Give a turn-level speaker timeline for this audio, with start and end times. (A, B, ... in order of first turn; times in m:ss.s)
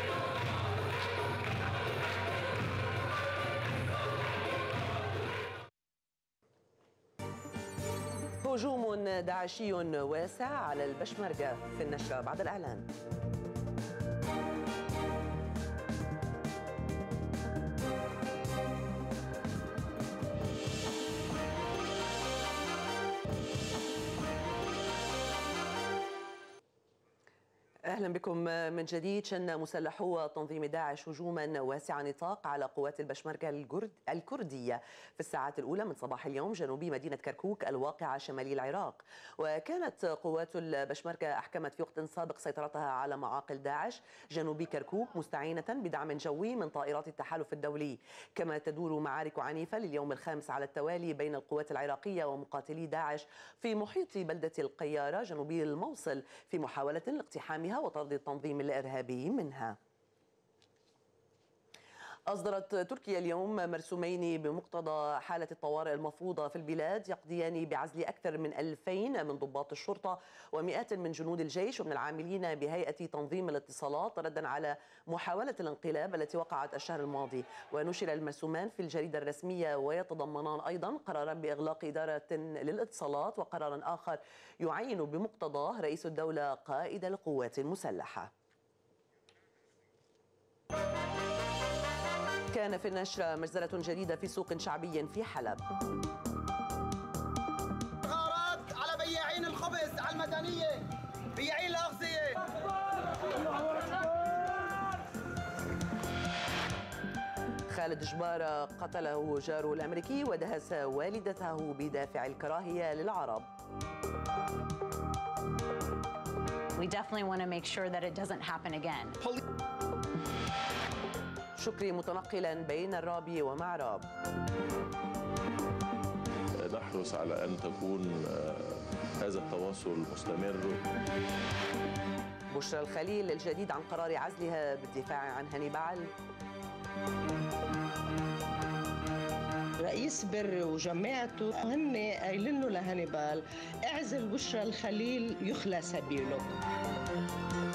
0:08.4-0:12.9 A
0:27.9-0:59.8 A
1:02.3-1:28.3 A
1:32.5-1:35.6 A
1:38.0-1:40.8 B
1:41.4-1:42.4 B
1:47.7-1:53.5 A
1:56.8-1:59.2 C
2:01.6-2:04.0 A
2:06.6-2:10.8 D
2:12.5-2:16.1 A
2:19.8-2:26.5 E